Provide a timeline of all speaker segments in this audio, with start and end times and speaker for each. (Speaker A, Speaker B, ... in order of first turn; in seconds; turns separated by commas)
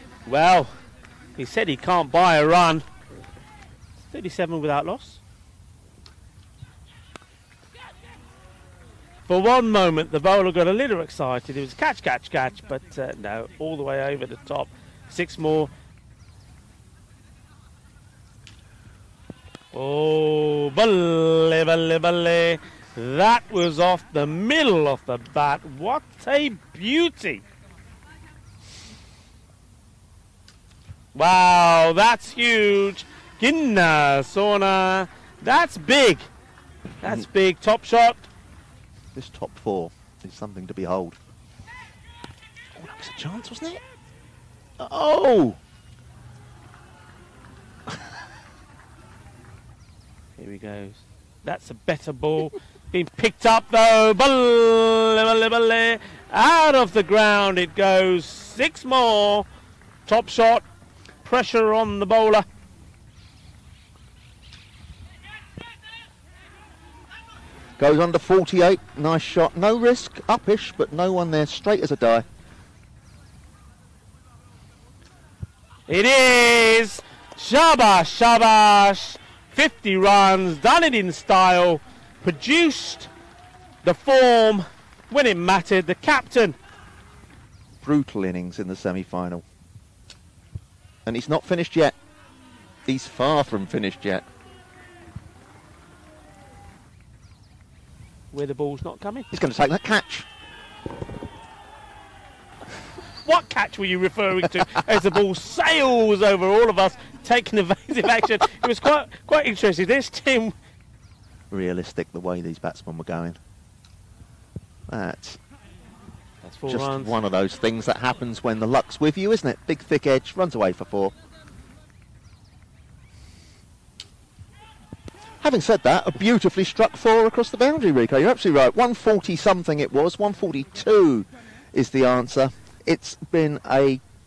Speaker A: 0.2-0.7, Speaker A: 1.4-2.8, Speaker A: 4.0-5.2, Speaker A: 9.3-15.7, Speaker A: 19.7-27.4, Speaker A: 31.1-36.2, Speaker A: 37.0-38.3, Speaker B: 39.1-41.2, Speaker B: 42.7-43.8, Speaker B: 44.8-45.6, Speaker A: 50.4-59.5, Speaker A: 60.0-60.6, Speaker A: 61.2-62.4, Speaker B: 67.8-72.2, Speaker A: 75.9-83.1, Speaker A: 83.8-86.6, Speaker B: 87.8-89.4, Speaker B: 91.0-91.9, Speaker B: 92.8-94.2, Speaker A: 98.3-99.3, Speaker B: 99.3-100.3, Speaker A: 103.2-110.5, Speaker B: 111.5-113.4, Speaker B: 114.9-115.4, Speaker A: 116.4-117.2, Speaker B: 116.7-121.1, Speaker B: 125.4-134.0